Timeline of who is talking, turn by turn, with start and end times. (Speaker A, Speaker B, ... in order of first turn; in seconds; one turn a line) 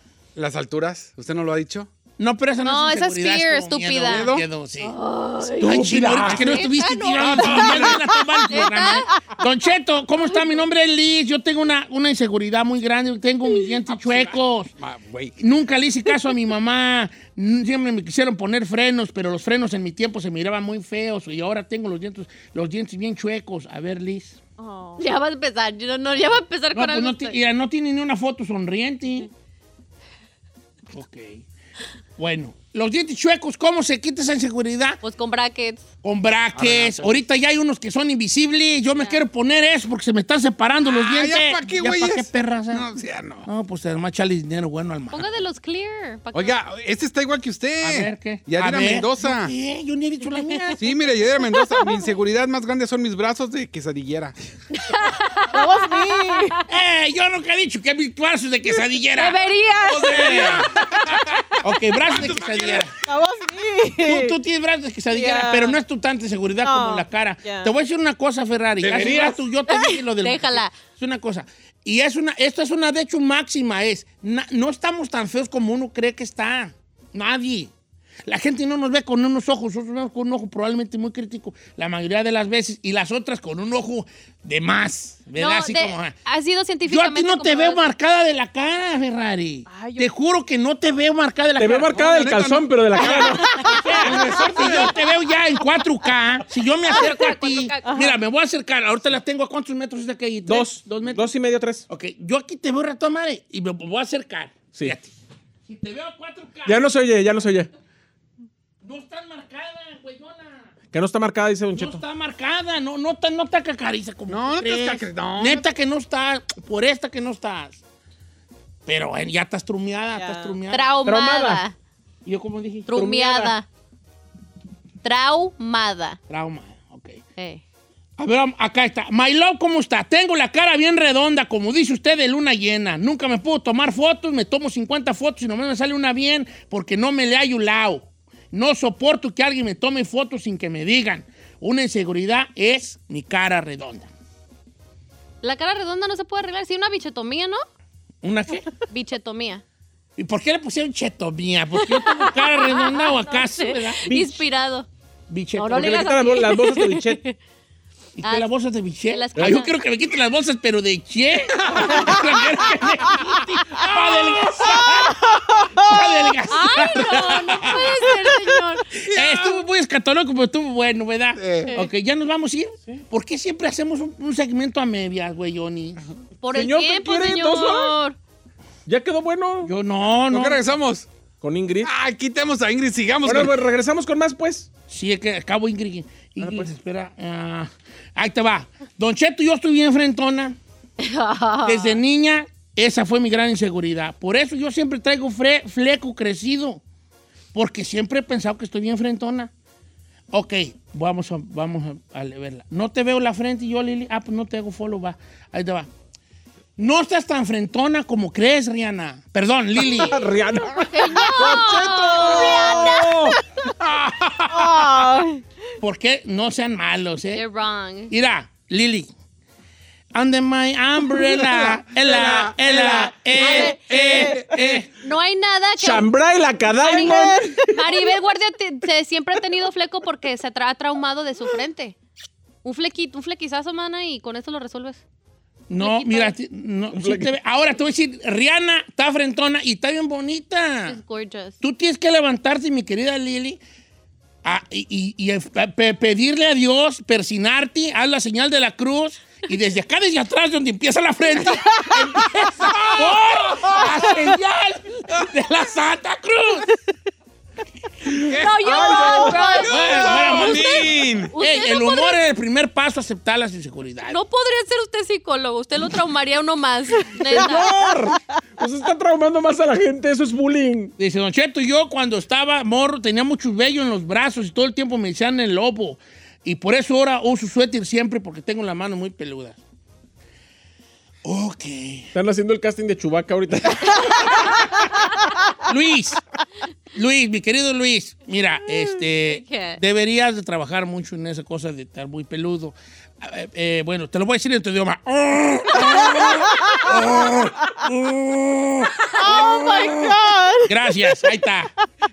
Speaker A: 0.4-1.9
Speaker B: 2.2-5.0
Speaker C: 2.6-9.1
Speaker A: 4.1-4.4
Speaker B: 5.6-14.7
Speaker D: 5.6-6.4
Speaker A: 7.2-8.0
Speaker A: 13.9-15.3
Speaker B: 15.4-24.4
Speaker E: 24.6-25.0
Speaker C: 25.0-27.4
Speaker B: 26.7-29.3
Speaker B: 30.9-31.4
Speaker B: 32.2-35.0
Speaker C: 35.0-35.8
Speaker B: 36.0-42.9
Speaker A: 36.5-37.2
Speaker C: 38.9-39.2
Speaker A: 40.9-43.5
Speaker B: 43.4-45.2
Speaker C: 45.1-46.6
Speaker A: 46.3-49.5
Speaker B: 47.8-50.8
Speaker A: 50.8-54.4
Speaker C: 51.6-51.9
Speaker C: 54.7-56.6
Speaker E: 55.5-56.6
Speaker B: 56.7-60.7
Speaker C: 59.2-61.2
Speaker A: 60.2-61.6
Speaker B: 61.6-62.9
Speaker A: 62.1-62.9
Speaker E: 63.1-64.4
Speaker B: 64.0-77.7
Speaker E: 65.1-65.8
Speaker E: 66.6-67.7
Speaker A: 68.8-69.4
Speaker C: 69.7-70.7
Speaker B: 78.3-86.2
Speaker C: 85.4-87.9
Speaker B: 86.9-92.1
Speaker E: 89.7-90.1
Speaker D: 91.6-93.6
Speaker A: 91.9-93.5
Speaker B: 93.0-101.3
Speaker A: 94.2-95.0
Speaker C: 96.8-98.0
Speaker E: 97.9-98.2
Speaker D: 100.5-101.8
Speaker B: 101.9-106.9
Speaker D: 106.7-107.7
Speaker B: 108.8-110.8
Speaker D: 110.9-112.0
Speaker B: 111.7-117.8
Speaker A: 114.3-115.7
Speaker B: 118.9-121.0
Speaker E: 120.2-120.6
Speaker C: 120.7-121.8
Speaker D: 121.0-121.6
Speaker B: 122.2-122.9
Speaker C: 122.9-123.7
Speaker D: 122.9-123.5
Speaker C: 125.0-126.2
Speaker B: 126.3-127.2
Speaker C: 127.4-127.6
Speaker B: 128.2-144.1
Speaker C: 145.4-147.6
Speaker B: 148.2-148.7
Speaker C: 148.9-149.6
Speaker B: 150.2-154.3
Speaker C: 151.8-154.9
Speaker D: 154.1-154.4
Speaker B: 155.3-156.2
Speaker C: 155.6-157.3
Speaker D: 155.7-157.2
Speaker B: 158.2-168.3
Speaker C: 158.2-158.5
Speaker C: 159.1-159.8
Speaker A: 161.6-162.2
Speaker C: 163.9-164.4
Speaker E: 165.6-165.8
Speaker C: 166.5-168.9
Speaker B: 169.0-176.0
Speaker A: 169.1-169.6
Speaker A: 171.4-171.7
Speaker C: 176.4-178.2
Speaker D: 176.5-178.0
Speaker D: 178.9-179.7
Speaker B: 179.6-180.6
Speaker A: 180.3-181.1
Speaker D: 181.4-181.9
Speaker A: 181.8-183.5
Speaker D: 183.2-184.7
Speaker B: 184.9-190.6
Speaker D: 186.4-186.7
Speaker C: 191.0-192.0
Speaker B: 191.7-196.8
Speaker B: 197.5-199.5
Speaker B: 200.3-205.9
Speaker B: 206.8-210.3
Speaker D: 209.8-213.4
Speaker C: 210.8-213.3
Speaker E: 212.3-212.9
Speaker A: 213.8-214.5
Speaker E: 214.5-215.4
Speaker B: 214.6-214.9
Speaker B: 215.8-217.4
Speaker C: 217.3-218.1
Speaker B: 218.1-219.1
Speaker B: 220.1-224.9
Speaker D: 221.2-221.8
Speaker A: 222.0-223.1
Speaker D: 222.7-224.2
Speaker C: 223.3-224.4
Speaker A: 224.1-224.5
Speaker C: 224.9-226.1
Speaker D: 225.8-228.0
Speaker C: 226.8-232.0
Speaker E: 226.8-227.2
Speaker C: 232.6-235.0
Speaker B: 235.7-241.0
Speaker C: 235.8-236.4
Speaker D: 236.9-237.3
Speaker C: 240.9-241.6
Speaker B: 241.6-243.6
Speaker B: 244.4-256.7
Speaker A: 252.7-254.0
Speaker A: 258.3-261.3
Speaker C: 258.3-262.2
Speaker D: 258.6-259.6
Speaker B: 259.6-264.2
Speaker C: 264.1-267.7
Speaker D: 267.1-270.9
Speaker B: 271.0-279.6
Speaker B: 281.2-282.1
Speaker D: 282.1-284.7
Speaker B: 285.6-286.2
Speaker B: 286.9-299.8
Speaker C: 289.3-289.8
Speaker C: 299.1-300.1
Speaker E: 299.2-301.1
Speaker B: 300.6-301.7